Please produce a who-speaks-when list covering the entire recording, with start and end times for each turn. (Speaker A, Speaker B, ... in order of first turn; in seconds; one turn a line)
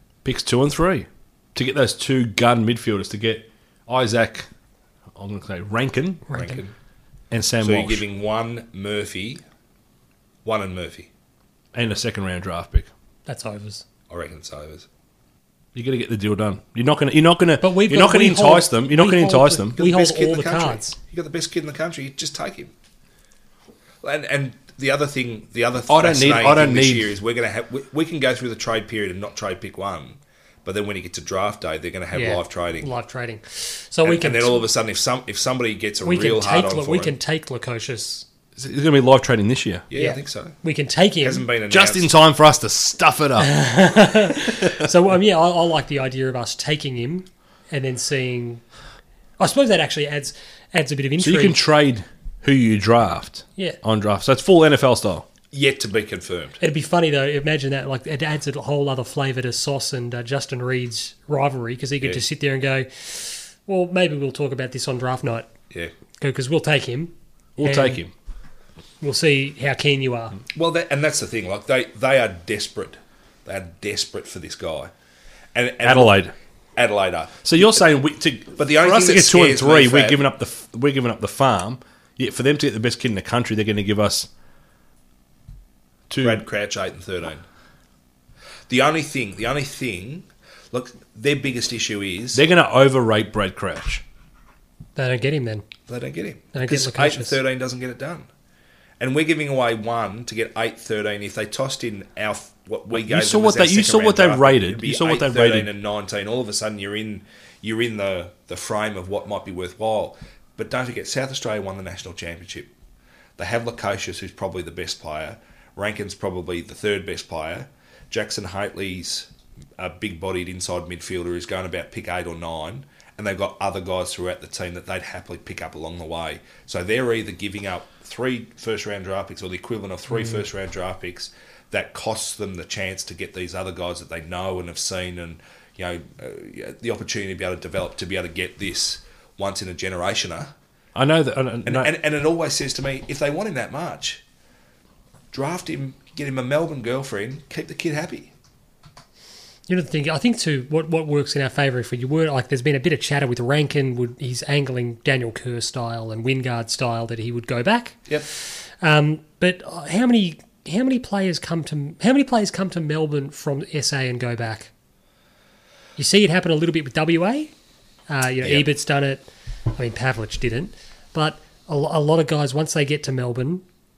Speaker A: 0.2-4.5
Speaker A: 5.2-6.2
Speaker B: 6.3-6.6
Speaker C: 6.3-6.7
Speaker A: 7.3-8.0
Speaker C: 7.6-9.4
Speaker C: 10.4-11.1
Speaker A: 11.7-12.9
Speaker B: 13.3-13.8
Speaker C: 14.1-14.9
Speaker A: 15.7-19.8
Speaker B: 17.6-20.9
Speaker C: 19.8-22.7
Speaker C: 24.0-32.9
Speaker A: 25.9-27.1
Speaker B: 32.1-34.6
Speaker C: 34.0-37.2
Speaker B: 36.0-38.3
Speaker A: 38.6-39.9
Speaker C: 39.9-40.6
Speaker B: 40.0-41.5
Speaker C: 41.2-42.1
Speaker A: 41.7-43.5
Speaker B: 43.4-48.6
Speaker B: 49.4-51.6
Speaker A: 51.2-55.2
Speaker C: 55.5-56.6
Speaker B: 56.6-65.5
Speaker B: 66.2-68.0
Speaker A: 67.6-68.1
Speaker B: 69.0-70.4
Speaker C: 70.5-74.9
Speaker C: 75.5-76.2
Speaker A: 75.8-76.3
Speaker C: 76.8-77.8
Speaker A: 77.4-84.3
Speaker C: 78.6-80.2
Speaker A: 86.1-86.4
Speaker C: 86.2-87.5
Speaker C: 88.7-92.4
Speaker A: 92.3-94.0
Speaker B: 95.0-95.6
Speaker C: 95.9-98.3
Speaker B: 96.5-97.4
Speaker C: 99.0-112.7
Speaker A: 102.9-105.7
Speaker C: 113.4-140.5
Speaker A: 140.9-141.9
Speaker C: 141.6-144.2
Speaker C: 145.3-148.3
Speaker B: 149.7-164.7
Speaker B: 166.0-167.5
Speaker B: 168.1-173.6
Speaker C: 168.4-168.7